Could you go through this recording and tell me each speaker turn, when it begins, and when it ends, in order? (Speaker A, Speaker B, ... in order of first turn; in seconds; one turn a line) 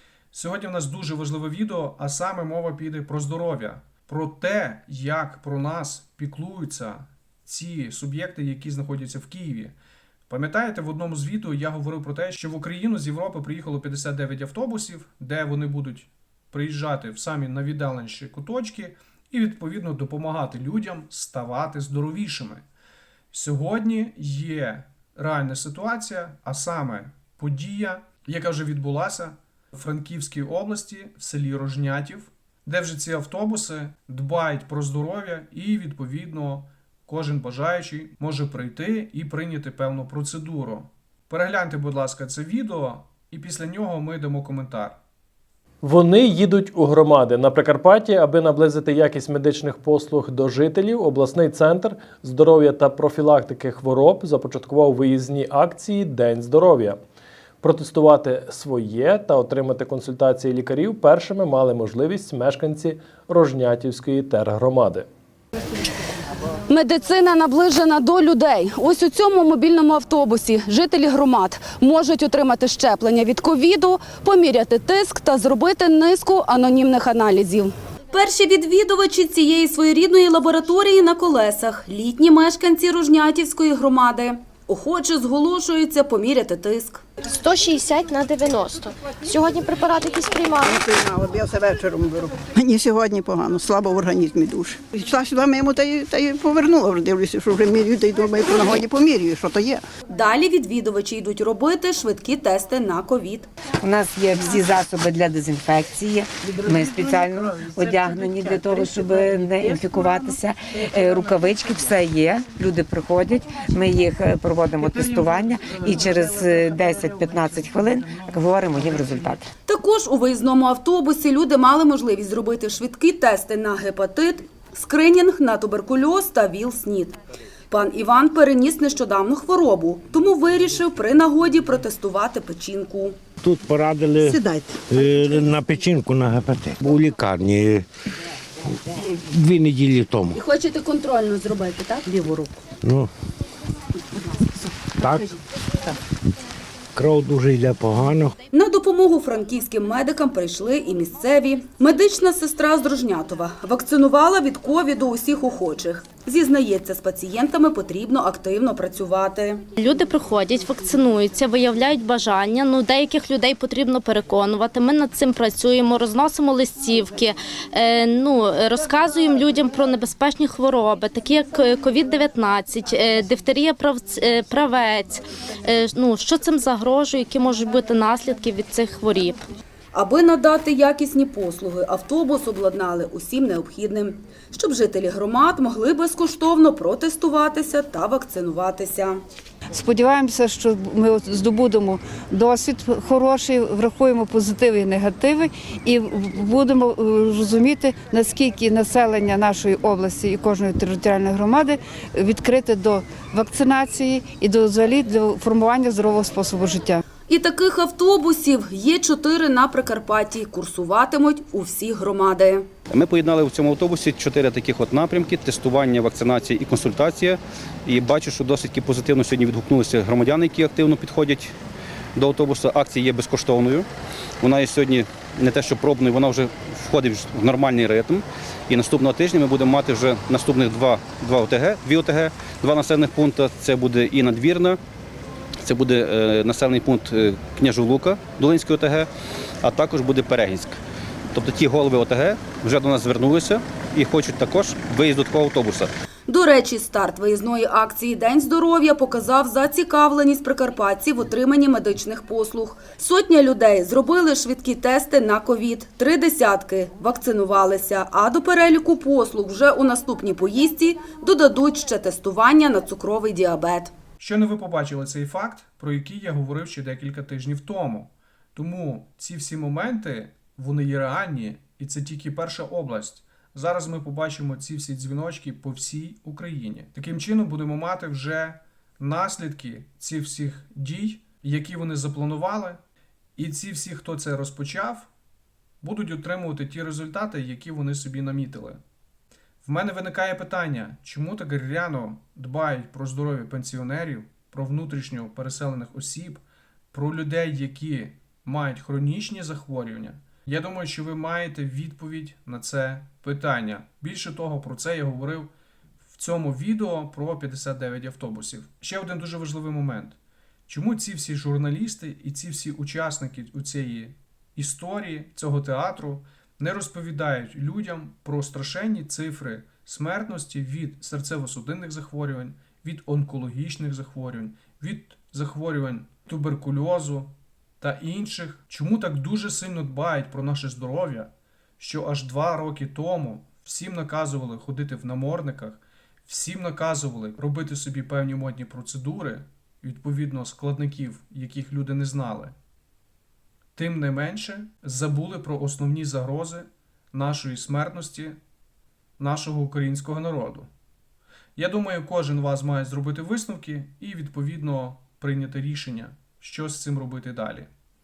Speaker A: 0.3-9.8
Speaker A: 10.3-22.6
Speaker A: 23.3-45.0
Speaker B: 45.8-57.0
Speaker B: 57.6-65.1
Speaker C: 66.7-87.0
Speaker D: 87.3-90.7
Speaker E: 90.6-99.8
Speaker C: 100.1-103.5
Speaker F: 103.8-119.5
Speaker C: 119.7-127.2
Speaker C: 127.7-133.2
Speaker G: 133.4-137.8
Speaker E: 134.2-134.8
Speaker G: 138.9-140.4
Speaker C: 140.3-142.5
Speaker G: 142.8-143.1
Speaker G: 145.0-145.3
Speaker G: 146.9-148.3
Speaker C: 148.5-159.6
Speaker H: 159.8-179.4
Speaker C: 179.9-189.2
Speaker I: 189.7-207.0
Speaker C: 207.3-212.7
Speaker J: 212.9-221.5
Speaker J: 222.2-223.9
Speaker J: 224.4-234.8
Speaker J: 235.6-239.1
Speaker J: 239.6-240.8
Speaker J: 241.3-245.9
Speaker C: 246.3-263.9
Speaker A: 264.2-282.8
Speaker A: 283.4-285.1
Speaker A: 285.8-288.8
Speaker A: 289.6-296.4
Speaker A: 296.9-305.5
Speaker A: 306.1-342.5
Speaker A: 343.7-348.4
Speaker A: 349.2-350.7
Speaker A: 351.6-357.7